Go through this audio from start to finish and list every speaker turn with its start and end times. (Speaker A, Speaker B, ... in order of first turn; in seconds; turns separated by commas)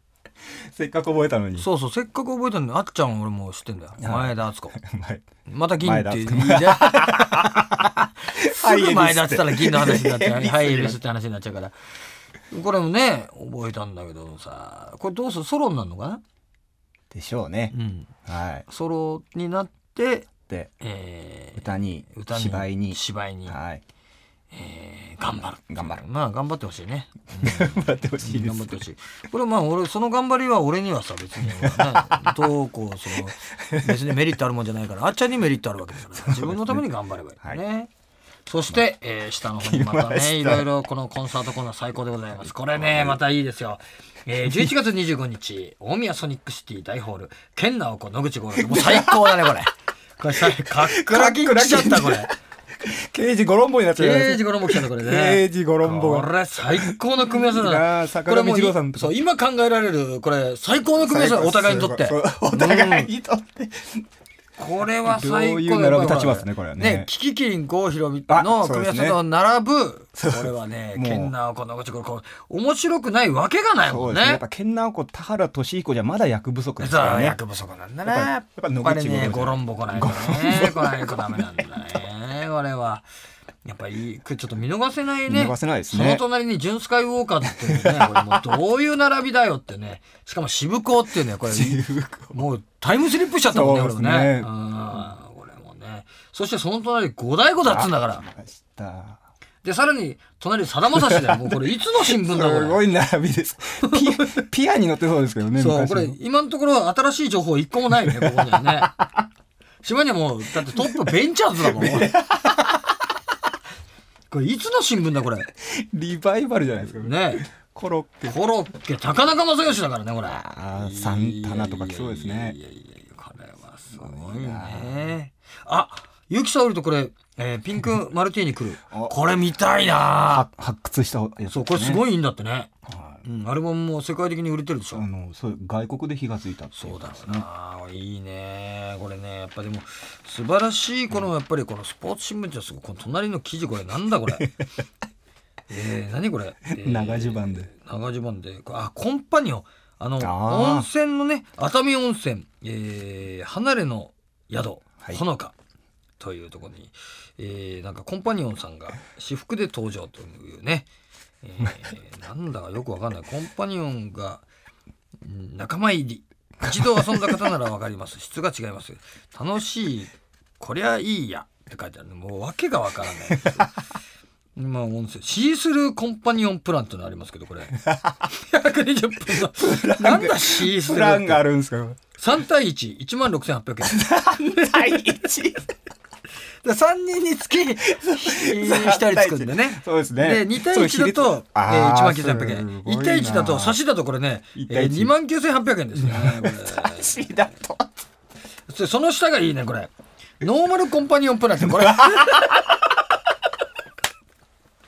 Speaker A: 0.7-1.7, Speaker B: 1.6-4.8, Speaker A: 4.0-5.2, Speaker B: 5.5-11.8, Speaker A: 5.8-11.0, Speaker B: 12.5-16.2, Speaker A: 17.1-17.8, Speaker B: 17.7-18.1, Speaker A: 18.3-18.6, Speaker B: 18.7-23.6, Speaker A: 20.5-20.7, Speaker A: 21.6-23.8, Speaker B: 24.5-37.9, Speaker A: 25.7-26.0, Speaker A: 27.4-28.8, Speaker A: 31.4-32.6, Speaker A: 33.1-34.2, Speaker A: 36.1-36.9, Speaker B: 38.5-52.3, Speaker A: 39.6-40.7, Speaker A: 42.4-43.2, Speaker A: 44.4-44.7, Speaker A: 48.5-49.6, Speaker A: 50.3-59.2, Speaker B: 54.0-63.1, Speaker A: 61.0-64.0, Speaker B: 64.6-74.4, Speaker A: 65.0-67.1, Speaker A: 68.3-69.2, Speaker A: 70.2-71.3, Speaker A: 73.8-77.4, Speaker B: 76.8-83.1, Speaker A: 78.0-81.7, Speaker B: 83.7-98.2, Speaker A: 85.3-86.2, Speaker A: 87.6-88.4, Speaker A: 91.4-92.5, Speaker A: 93.4-95.1, Speaker A: 97.6-99.2, Speaker B: 99.6-102.9, Speaker A: 101.0-106.2, Speaker B: 103.8-104.4, Speaker B: 105.5-109.0, Speaker A: 107.9-109.1, Speaker B: 109.8-112.1, Speaker A: 110.6-112.8, Speaker B: 114.3-115.5, Speaker A: 115.6-118.4, Speaker B: 117.0-117.5, Speaker B: 118.3-130.5, Speaker A: 120.2-122.6, Speaker A: 123.9-125.1, Speaker A: 130.1-132.0, Speaker B: 131.5-135.1, Speaker A: 132.9-133.2, Speaker A: 134.9-137.5, Speaker B: 136.7-144.5, Speaker A: 144.2-144.5, Speaker B: 145.7-155.5, Speaker A: 146.7-147.7, Speaker A: 150.2-150.9, Speaker B: 156.2-160.9, Speaker B: 161.4-164.4, Speaker B: 165.2-173.7, Speaker A: 173.3-173.7, Speaker B: 174.6-181.5, Speaker A: 177.7-178.3, Speaker A: 179.3-182.0, Speaker B: 182.1-185.1, Speaker A: 183.8-185.7, Speaker B: 186.6-197.3, Speaker A: 187.9-193.8, Speaker A: 194.6-195.1, Speaker A: 195.9-197.9, Speaker B: 198.7-202.8, Speaker A: 201.6-202.5